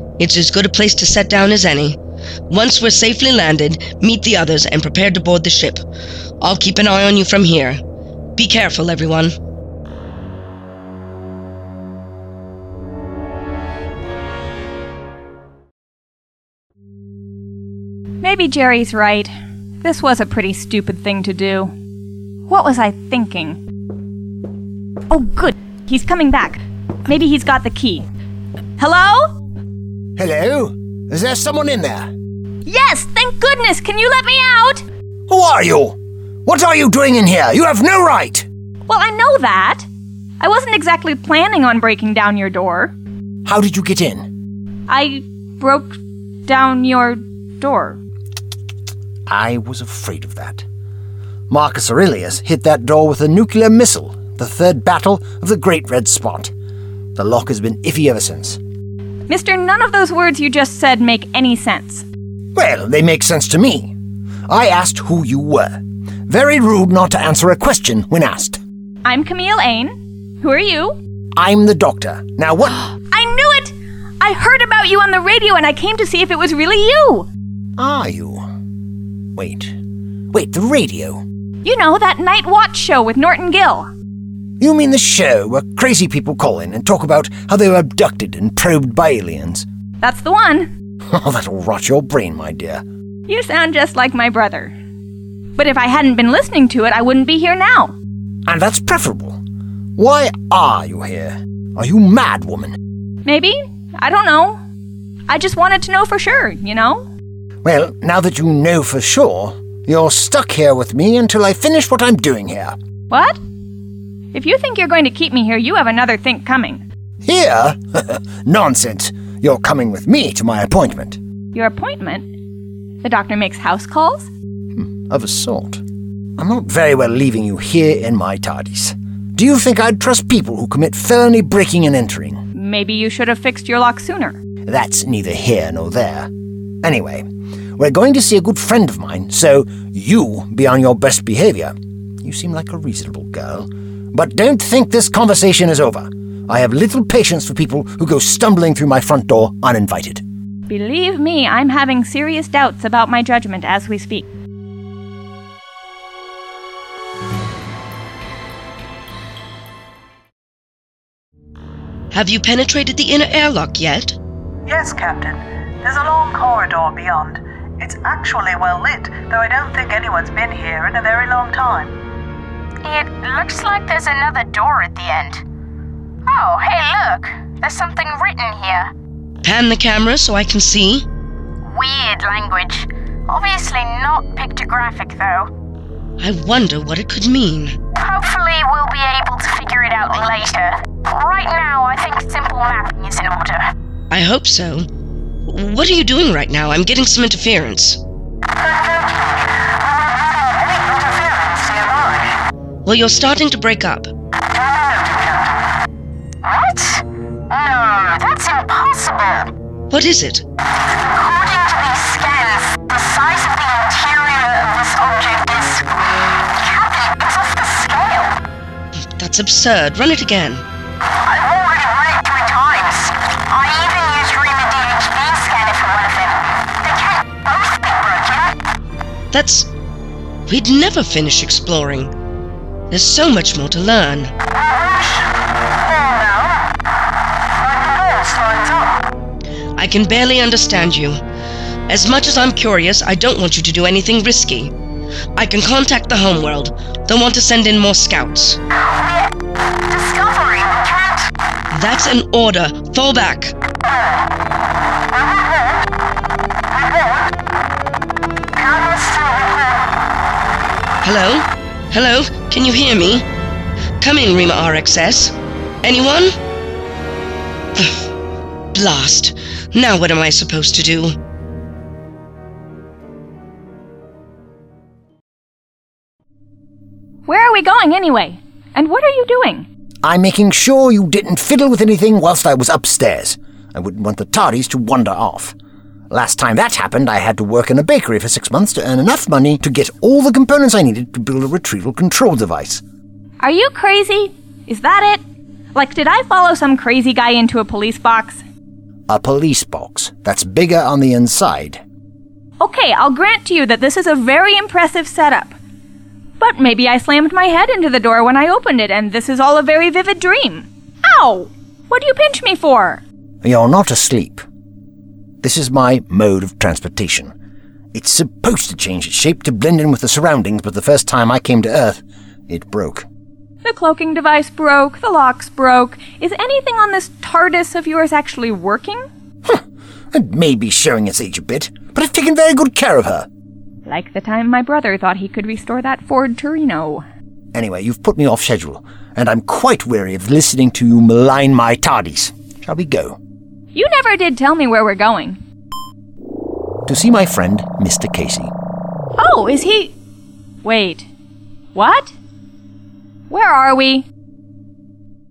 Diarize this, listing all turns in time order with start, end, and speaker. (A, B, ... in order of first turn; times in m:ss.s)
0:00.2-0:02.0 A
0:02.5-0:05.8 A
0:06.4-0:07.8 A
0:08.4-0:09.3 A
0:18.2-0:21.7 B
0:22.5-0:23.6 B
0:25.1-0:28.1 B
0:28.8-0:29.3 B
0:30.2-0:32.1 C
0:32.6-0:34.8 B
0:35.3-0:38.5 C
0:38.9-0:39.9 B
0:40.4-0:42.9 B
0:43.4-0:44.3 C
0:44.9-0:48.0 B
0:49.3-0:50.6 C
0:51.5-0:56.5 C
0:57.1-0:58.6 C
0:59.3-1:02.0 B
1:02.5-1:03.9 C
1:04.5-1:08.6 C
1:09.0-1:11.0 B
1:11.3-1:12.9 C
1:13.1-1:17.3 B
1:17.8-1:18.5 C
1:19.3-1:19.7 C
1:20.3-1:21.2 C
1:21.6-1:23.9 B
1:24.6-1:29.6 C
1:30.0-1:30.7 B
1:31.1-1:32.8 C
1:33.3-1:34.7 B
1:35.6-1:37.9 B
1:38.4-1:39.4 C
1:40.0-1:42.8 C
1:43.2-1:44.6 B
1:45.3-1:47.0 B
1:47.6-1:52.8 C
1:53.1-1:53.4 B
1:54.3-1:56.8 B
1:57.2-2:01.2 C
2:01.5-2:02.2 B
2:03.0-2:04.3 B
2:04.7-2:05.8 C
2:06.4-2:12.4 C
2:12.5-2:14.4 B
2:14.6-2:16.3 C
2:16.8-2:17.2 C
2:17.8-2:30.2 C
2:30.7-2:34.3 B
2:42.1-2:44.2 A
2:44.6-2:51.9 D
2:52.8-2:55.4 E
2:56.2-2:58.9 E
2:59.4-3:01.0 A
3:01.6-3:05.5 E
3:06.2-3:07.8 A
3:07.9-3:13.7 E
3:14.1-3:14.9 A
3:15.5-3:18.0 A
3:18.7-3:19.5 E
3:20.0-3:22.3 E
3:22.8-3:24.1 A
3:26.4-3:29.5 E
3:29.9-3:30.4 A
3:30.8-3:35.9 E
3:36.4-3:38.4 E
3:39.2-3:40.6 A
3:41.2-3:48.6 E
3:49.3-3:49.7 A
3:50.5-3:52.1 A
3:52.9-3:54.3 A
3:57.9-3:58.9 E
3:59.8-4:01.2 A
4:01.9-4:04.7 A
4:05.4-4:08.6 A
4:08.8-4:09.3 E
4:09.9-4:11.3 E
4:11.7-4:13.5 A
4:18.6-4:19.5 E
4:21.0-4:23.2 A
4:24.0-4:26.3 A
4:28.7-4:31.2 A
4:37.3-4:39.7 B
4:40.0-4:45.5 C
4:46.1-4:52.8 C
4:53.4-4:55.2 B
4:55.7-4:58.4 B
4:59.1-5:01.8 C
5:02.6-5:05.5 B
5:06.4-5:13.0 B
5:13.4-5:14.4 C
5:15.4-5:17.3 C
5:17.9-5:23.0 C
5:23.6-5:29.0 B
5:29.4-5:33.3 C
5:33.8-5:37.0 B
5:37.5-5:43.2 C
5:43.7-5:45.4 B
5:46.8-5:48.5 C
5:49.2-5:49.9 B
5:50.6-5:51.1 B
5:51.7-5:52.1 B
5:53.3-5:54.0 B